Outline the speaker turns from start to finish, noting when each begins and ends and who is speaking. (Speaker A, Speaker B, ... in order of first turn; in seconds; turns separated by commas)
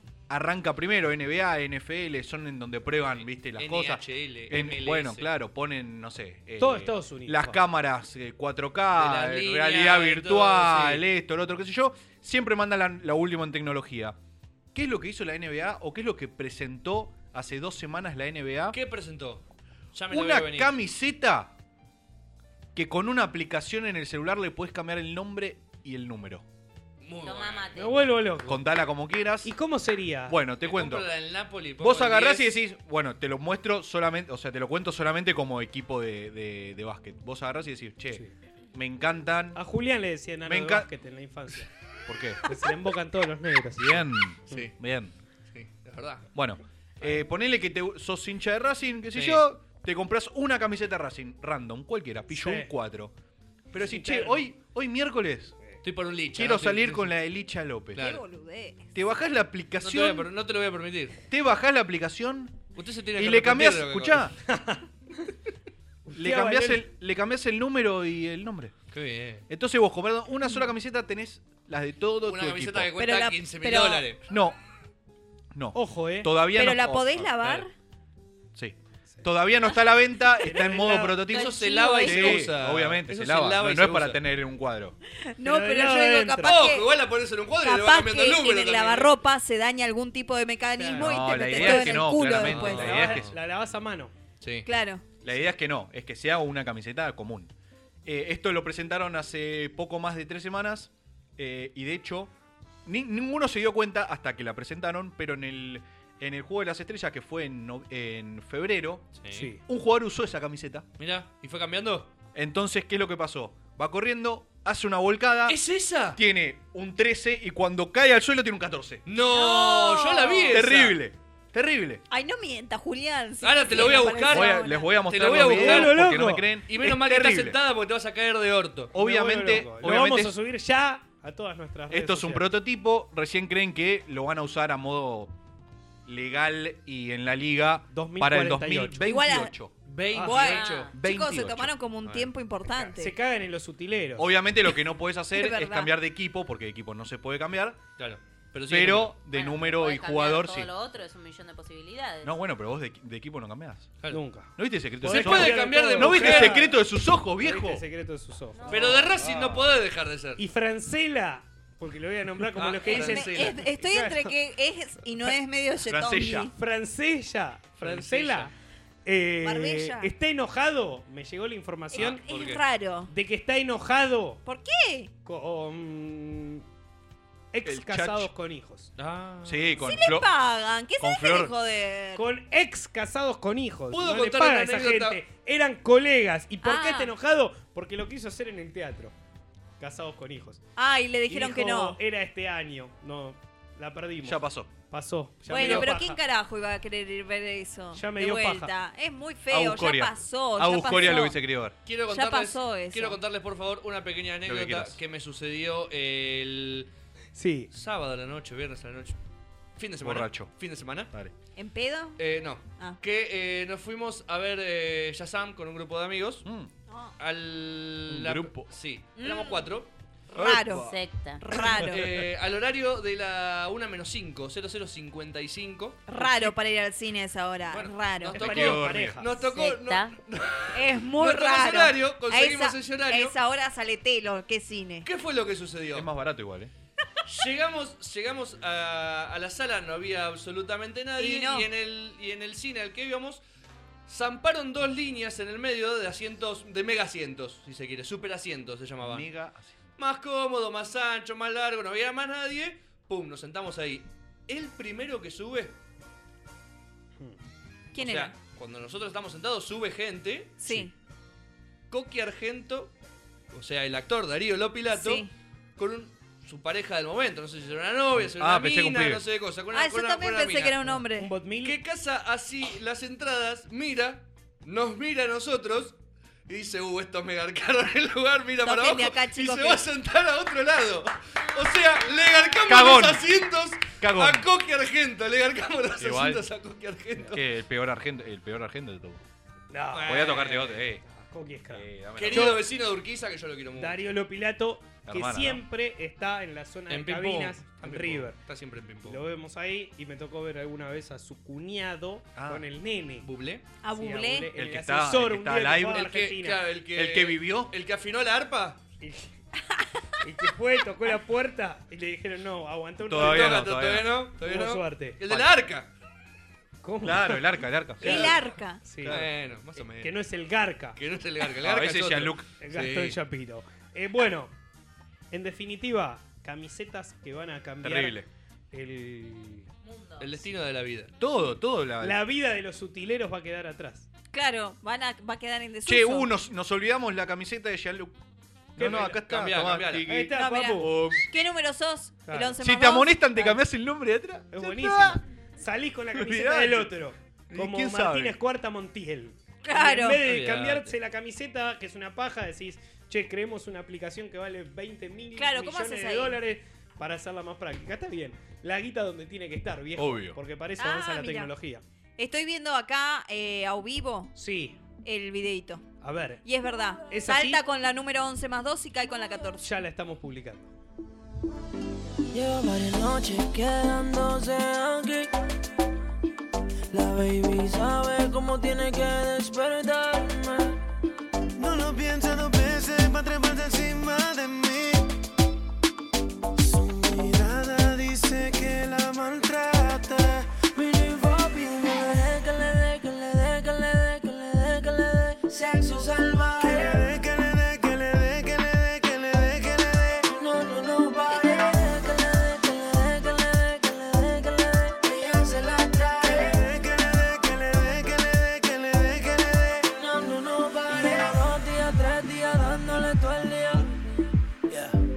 Speaker A: 0.3-14.2, Speaker B: 3.1-5.3, Speaker C: 6.6-7.6, Speaker B: 9.0-11.0, Speaker A: 14.7-18.8, Speaker B: 18.7-19.4, Speaker B: 19.9-20.8, Speaker A: 20.1-21.5, Speaker A: 22.8-26.4, Speaker B: 27.0-27.7, Speaker D: 27.2-28.0, Speaker C: 27.8-28.6, Speaker A: 28.5-29.5, Speaker C: 29.4-30.4, Speaker A: 30.3-31.1, Speaker B: 30.6-32.6, Speaker A: 31.8-38.2, Speaker A: 38.7-39.6, Speaker C: 39.5-41.7, Speaker A: 40.5-40.9, Speaker A: 42.1-42.4, Speaker C: 42.5-44.7, Speaker A: 43.8-45.1, Speaker B: 45.5-46.2, Speaker A: 46.4-53.1, Speaker B: 49.1-49.4, Speaker C: 52.3-52.7, Speaker A: 53.7-55.5, Speaker C: 53.8-54.4, Speaker B: 55.8-57.1, Speaker A: 56.4-58.0, Speaker B: 58.0-58.2, Speaker E: 58.0-58.9, Speaker A: 59.0-60.3, Speaker B: 59.8-61.2, Speaker A: 61.3-62.6, Speaker B: 62.8-64.3, Speaker A: 63.2-64.3, Speaker C: 64.5-64.8, Speaker C: 66.1-66.8, Speaker A: 66.1-68.7, Speaker B: 68.9-69.4, Speaker A: 69.5-72.9, Speaker B: 72.3-74.2, Speaker E: 73.0-74.0, Speaker A: 74.3-74.6, Speaker A: 75.5-77.7, Speaker C: 75.8-76.3, Speaker E: 76.5-77.7, Speaker A: 78.5-85.0, Speaker C: 80.4-81.2, Speaker B: 81.3-84.2, Speaker E: 81.3-82.5, Speaker E: 85.3-86.9, Speaker C: 85.4-86.6, Speaker B: 86.4-89.1, Speaker E: 87.6-93.0, Speaker C: 90.8-94.1, Speaker A: 90.9-93.3, Speaker B: 92.4-93.3, Speaker B: 94.4-94.7, Speaker E: 94.7-95.0, Speaker A: 95.2-97.5, Speaker A: 98.0-102.3, Speaker A: 102.8-110.9, Speaker B: 109.2-109.5, Speaker C: 109.3-109.6, Speaker B: 111.0-112.1, Speaker A: 112.3-115.6, Speaker B: 115.5-116.2, Speaker A: 116.1-119.0, Speaker B: 119.1-121.0, Speaker E: 119.3-120.5, Speaker A: 120.5-122.0, Speaker E: 122.1-125.0, Speaker B: 123.4-126.0, Speaker A: 123.8-127.6, Speaker C: 125.4-126.5, Speaker B: 126.7-128.9, Speaker A: 128.9-130.3, Speaker C: 128.9-132.5, Speaker A: 131.9-135.3, Speaker A: 136.1-139.7, Speaker C: 137.9-139.1, Speaker E: 139.0-139.5, Speaker B: 139.9-140.9, Speaker C: 140.1-140.6, Speaker E: 140.2-143.1, Speaker D: 140.4-140.9, Speaker A: 140.9-141.7, Speaker C: 142.8-144.4, Speaker A: 144.2-147.8, Speaker E: 145.3-145.9, Speaker B: 148.0-149.2, Speaker A: 148.7-150.7, Speaker D: 149.3-152.3, Speaker A: 152.2-153.9, Speaker C: 154.1-156.8, Speaker A: 154.6-157.8, Speaker B: 155.0-156.6, Speaker C: 157.4-159.1, Speaker D: 158.6-159.0, Speaker B: 158.7-160.4, Speaker A: 159.2-159.6, Speaker C: 160.4-164.3, Speaker B: 162.6-163.6, Speaker E: 162.8-166.5, Speaker A: 165.8-166.5, Speaker C: 166.6-168.5, Speaker B: 167.8-168.5, Speaker C: 169.1-172.2, Speaker E: 169.4-170.1, Speaker E: 171.9-173.1, Speaker B: 172.0-172.6, Speaker C: 173.1-174.4, Speaker E: 174.4-175.1, Speaker C: 175.2-176.6, Speaker C: 177.5-178.9, Speaker A: 177.7-178.3, Speaker B: 179.0-179.8, Speaker A: 179.4-180.3, Speaker E: 179.8-182.2, Speaker A: 181.0-181.5, Speaker C: 182.2-189.2, Speaker B: 183.9-185.2, Speaker E: 186.6-187.1, Speaker C: 189.8-190.6, Speaker E: 190.8-192.0, Speaker C: 191.3-196.2, Speaker A: 194.2-194.7, Speaker E: 195.5-201.4, Speaker C: 197.9-198.7, Speaker A: 199.5-201.7, Speaker B: 201.9-206.9, Speaker E: 202.1-203.2, Speaker A: 204.4-205.0, Speaker C: 207.4-207.7, Speaker B: 207.7-209.2, Speaker B: 209.8-211.1, Speaker A: 210.0-210.5, Speaker E: 211.6-212.2, Speaker B: 212.2-216.4, Speaker A: 216.4-216.7, Speaker B: 217.2-219.9, Speaker A: 218.1-218.7, Speaker E: 219.2-219.7, Speaker E: 220.3-222.0, Speaker D: 220.8-221.4, Speaker B: 221.8-226.0, Speaker E: 226.1-228.4, Speaker B: 227.7-233.3, Speaker C: 228.3-229.3, Speaker A: 228.4-229.2, Speaker D: 229.4-230.2, Speaker E: 230.7-235.1, Speaker B: 235.0-236.1, Speaker A: 235.9-236.7, Speaker B: 237.3-243.4, Speaker E: 241.2-241.7, Speaker B: 244.1-249.3, Speaker A: 249.0-249.8, Speaker B: 250.0-255.7, Speaker E: 257.9-258.3, Speaker B: 258.0-260.9, Speaker E: 260.6-260.9, Speaker B: 261.9-262.9, Speaker B: 263.5-265.3, Speaker E: 264.9-265.3, Speaker B: 265.8-270.8, Speaker A: 268.4-269.2, Speaker E: 269.7-271.3, Speaker C: 270.9-271.8, Speaker B: 271.6-276.0, Speaker B: 276.5-287.4, Speaker E: 278.6-279.8, Speaker A: 282.7-283.3, Speaker A: 284.0-284.5, Speaker A: 286.0-286.4, Speaker A: 287.3-289.2, Speaker C: 289.7-292.6, Speaker B: 289.9-290.6, Speaker A: 290.1-291.0, Speaker A: 291.7-292.6, Speaker B: 292.2-294.0, Speaker C: 293.8-298.4, Speaker A: 295.1-295.6, Speaker B: 296.9-299.2, Speaker C: 299.1-303.3, Speaker A: 302.4-302.6, Speaker B: 303.2-303.6, Speaker E: 303.8-304.5, Speaker C: 303.9-306.6, Speaker A: 304.5-306.1, Speaker B: 305.9-308.8, Speaker A: 306.9-307.7, Speaker C: 309.0-309.3, Speaker C: 310.2-313.6, Speaker A: 313.1-314.1, Speaker B: 313.2-315.9, Speaker C: 314.4-315.2, Speaker C: 316.8-317.5, Speaker A: 317.0-318.4, Speaker C: 318.0-319.2, Speaker E: 318.0-318.8, Speaker A: 319.0-319.3, Speaker B: 319.1-320.1, Speaker C: 320.0-321.0, Speaker B: 321.0-323.2, Speaker A: 321.6-322.5, Speaker C: 322.6-324.5, Speaker C: 325.3-328.2, Speaker A: 327.8-328.3, Speaker C: 328.7-329.7, Speaker D: 329.8-330.4, Speaker B: 330.2-331.1, Speaker A: 331.2-332.2, Speaker C: 332.0-334.1, Speaker E: 334.3-336.3, Speaker A: 335.9-338.1, Speaker A: 338.8-341.3, Speaker C: 338.8-339.1, Speaker B: 338.8-340.1, Speaker C: 340.1-340.9, Speaker E: 340.3-343.3, Speaker C: 342.3-342.6, Speaker A: 342.6-345.2, Speaker C: 344.5-361.8, Speaker A: 346.1-346.9, Speaker A: 347.5-348.4, Speaker E: 349.6-350.2, Speaker B: 350.2-350.9, Speaker E: 355.4-356.4, Speaker A: 360.0-360.4, Speaker E: 360.8-361.5, Speaker E: 362.2-364.3, Speaker C: 364.4-364.8, Speaker E: 365.0-365.9, Speaker C: 366.0-366.4, Speaker E: 366.4-369.7, Speaker C: 367.1-367.6, Speaker C: 369.6-370.7, Speaker F: 372.3-375.3, Speaker F: 376.9-380.8, Speaker G: 381.6-385.1, Speaker G: 386.6-390.5, Speaker F: 390.8-397.0, Speaker G: 396.5-400.3, Speaker F: 400.3-406.6, Speaker G: 406.1-409.9, Speaker F: 409.9-413.9, Speaker G: 410.9-411.5, Speaker G: 414.7-415.0